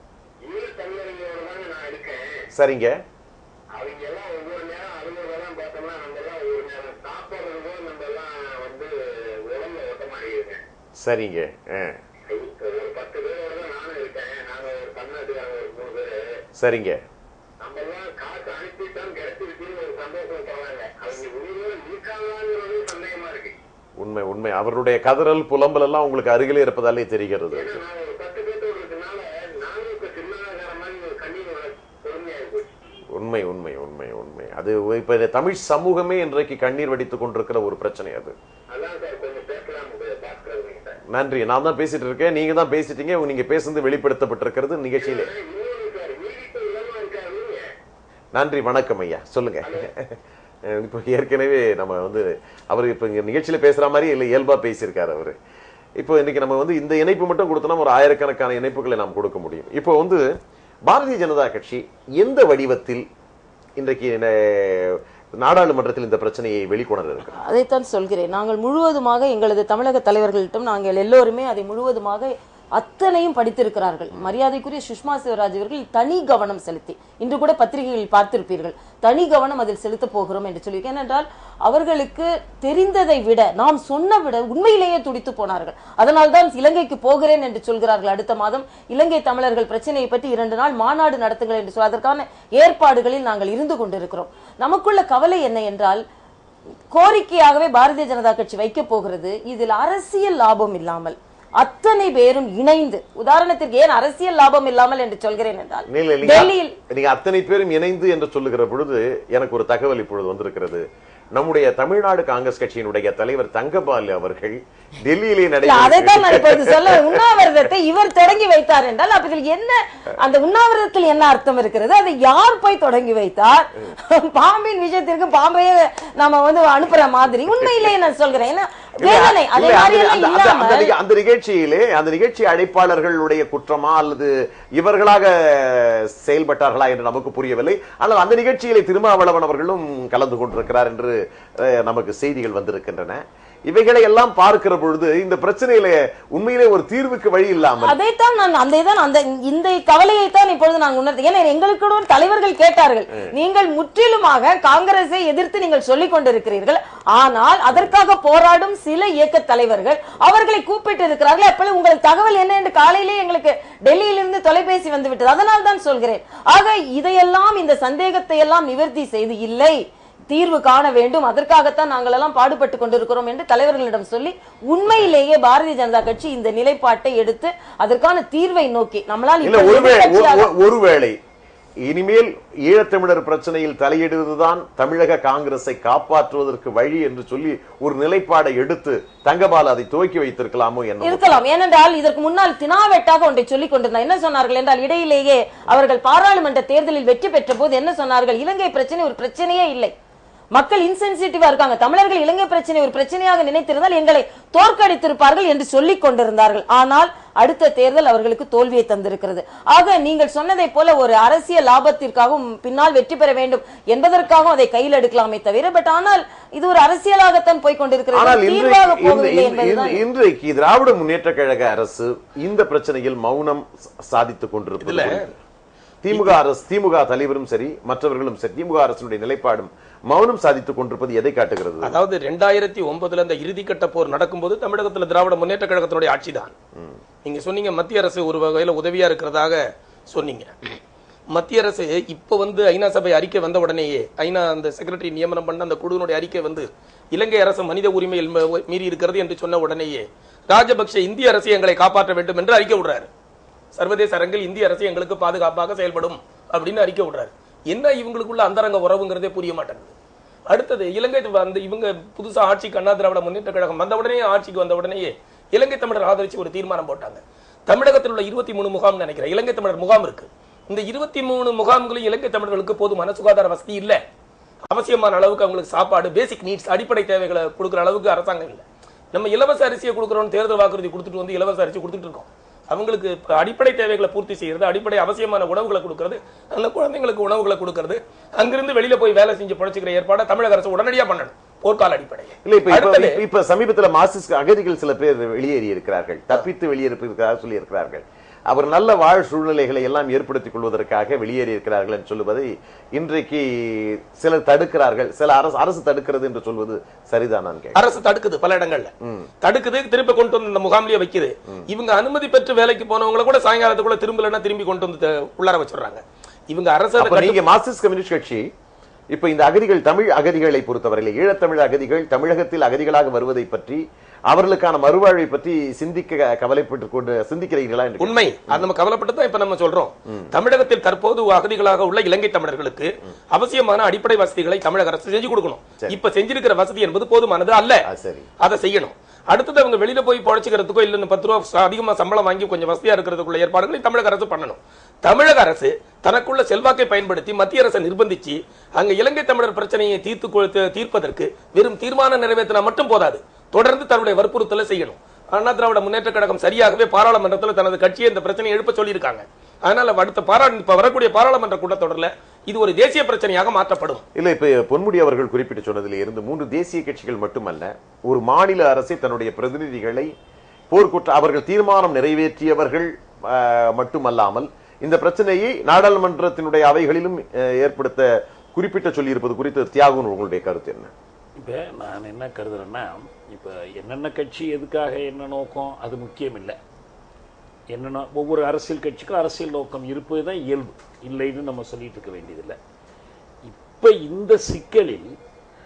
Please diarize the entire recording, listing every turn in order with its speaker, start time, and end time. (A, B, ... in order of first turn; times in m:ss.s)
0:00.4-0:02.4 A
0:02.6-0:03.0 B
0:03.8-0:08.9 A
0:09.5-0:10.6 A
0:11.0-0:12.0 B
0:12.3-0:16.2 A
0:16.6-0:17.0 B
0:17.6-0:23.6 A
0:24.0-0:27.8 B
0:27.5-0:32.7 A
0:33.2-0:38.4 B
0:38.7-0:41.0 A
0:41.1-0:45.3 B
0:45.0-0:47.6 A
0:48.4-0:50.2 B
0:50.7-0:55.4 B
0:56.0-1:00.2 B
1:00.9-1:03.0 B
1:03.8-1:07.4 B
1:07.3-1:36.0 C
1:36.9-1:46.8 C
1:45.9-1:50.8 B
1:51.4-1:57.2 B
1:55.6-2:11.0 C
2:07.6-2:07.9 B
2:09.0-2:28.0 B
2:27.8-2:49.8 C
2:50.3-3:00.5 C
2:59.4-3:01.2 B
3:01.8-3:11.4 B
3:11.0-3:19.9 C
3:20.5-3:40.0 C
3:38.1-3:45.4 B
3:44.8-3:45.3 D
3:46.0-3:52.0 B
3:46.1-3:46.4 D
3:51.8-3:56.5 D
3:57.2-4:00.6 D
4:01.3-4:13.1 D
4:13.8-4:19.9 D
4:20.5-4:34.0 D
4:34.7-4:53.2 D
4:52.4-5:07.8 B
5:07.8-5:08.9 D
5:09.0-5:09.3 B
5:09.4-5:17.4 D
5:17.0-5:18.5 B
5:19.1-5:28.7 B
5:28.0-5:37.8 D
5:37.8-5:38.3 B
5:38.4-6:04.0 D
6:04.2-6:10.1 B
6:10.7-6:20.9 B
6:21.4-6:26.6 E
6:27.7-6:32.6 E
6:33.4-6:35.2 E